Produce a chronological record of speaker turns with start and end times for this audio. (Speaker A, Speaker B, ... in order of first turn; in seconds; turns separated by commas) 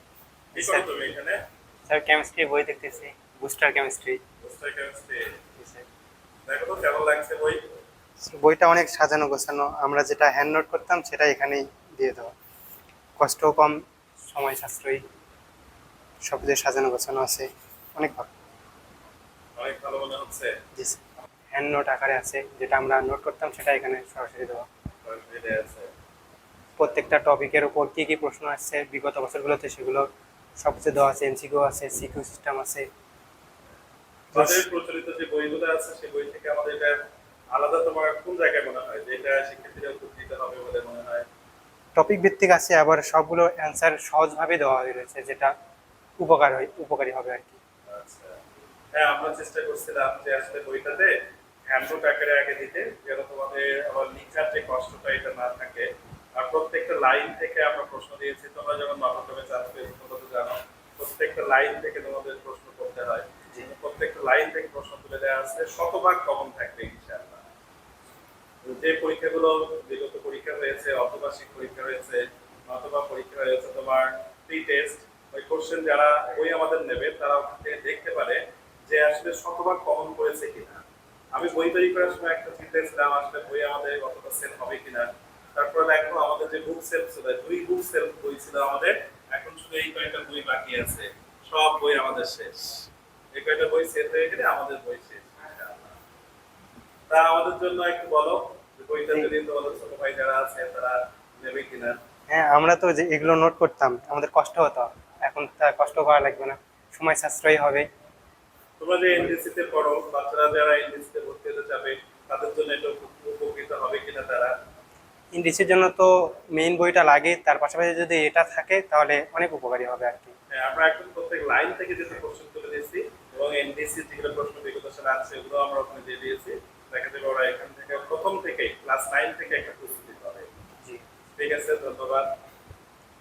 Speaker A: 0.6-0.8, Speaker B: 0.6-1.4, Speaker A: 1.9-4.2, Speaker B: 4.4-5.3, Speaker A: 5.6-5.8, Speaker B: 6.5-7.6, Speaker A: 8.2-12.3, Speaker A: 13.2-15.0, Speaker A: 16.3-18.3, Speaker B: 19.6-20.5, Speaker A: 21.5-24.6, Speaker B: 25.0-25.9, Speaker A: 26.8-30.1, Speaker A: 30.6-32.9, Speaker B: 34.3-36.9, Speaker A: 34.3-34.6, Speaker B: 37.5-41.2, Speaker A: 42.0-45.5, Speaker A: 46.2-47.6, Speaker B: 47.9-48.4, Speaker B: 49.0-51.1, Speaker B: 51.7-67.4, Speaker B: 68.7-80.8, Speaker B: 81.3-95.9, Speaker B: 97.1-102.0, Speaker A: 102.3-107.9, Speaker B: 108.8-114.5, Speaker A: 115.3-120.3, Speaker B: 120.5-130.5, Speaker B: 131.4-132.3